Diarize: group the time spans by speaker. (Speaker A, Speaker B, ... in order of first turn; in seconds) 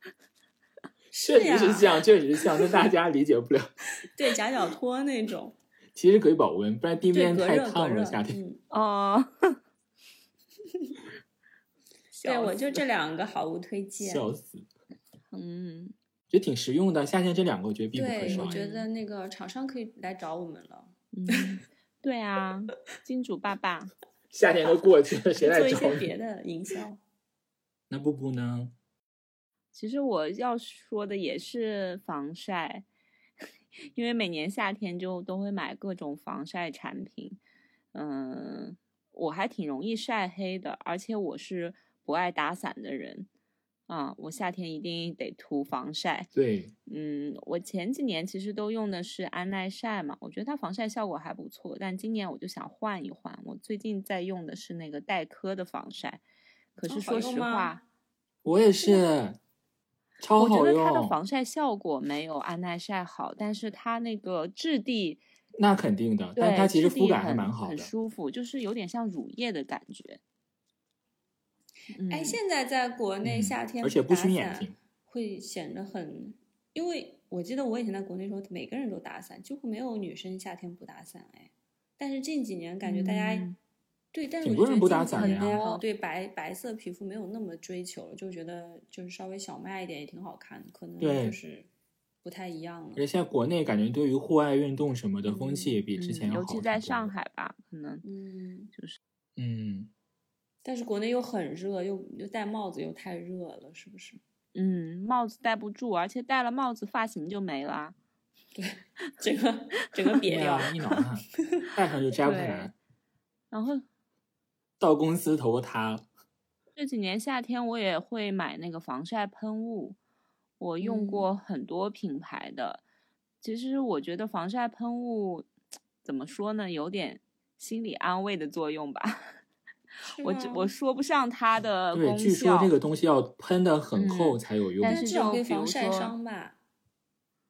Speaker A: 1.1-2.0, 4.1-5.5, 7.1-8.6, 12.1-14.3, 17.9-20.9, 25.4-27.0, 56.9-57.8, 72.1-83.5, 84.1-91.7, 92.2-93.0, 95.3-95.8, 98.0-98.7, 100.6-104.2, 108.5-110.9, 120.8-121.3, 130.1-130.7, 134.8-136.6
Speaker B: 1.2-3.7, 5.9-8.4, 14.0-14.7, 16.3-18.6, 24.3-26.1, 27.9-28.7, 46.3-46.7, 58.4-59.4, 60.2-61.2, 65.6-67.9, 73.2-74.8, 84.4-85.6, 91.0-91.4, 93.0-97.1, 99.4-99.9, 110.3-112.7, 114.8-116.0, 131.9-135.0
Speaker C: 8.7-9.6, 12.2-12.8, 15.3-15.9, 18.3-18.9, 21.1-23.9, 29.7-32.9, 33.9-37.4, 37.9-43.3, 43.9-46.3, 46.9-56.2, 56.8-57.8, 60.4-65.2, 66.3-70.2, 71.9-72.4, 82.8-83.6, 85.1-85.8, 96.0-98.0, 104.5-107.9, 112.2-112.7, 113.5-113.8, 116.8-120.0, 120.6-122.8, 123.4-125.5, 126.0-129.3, 130.2-132.7, 133.9-136.1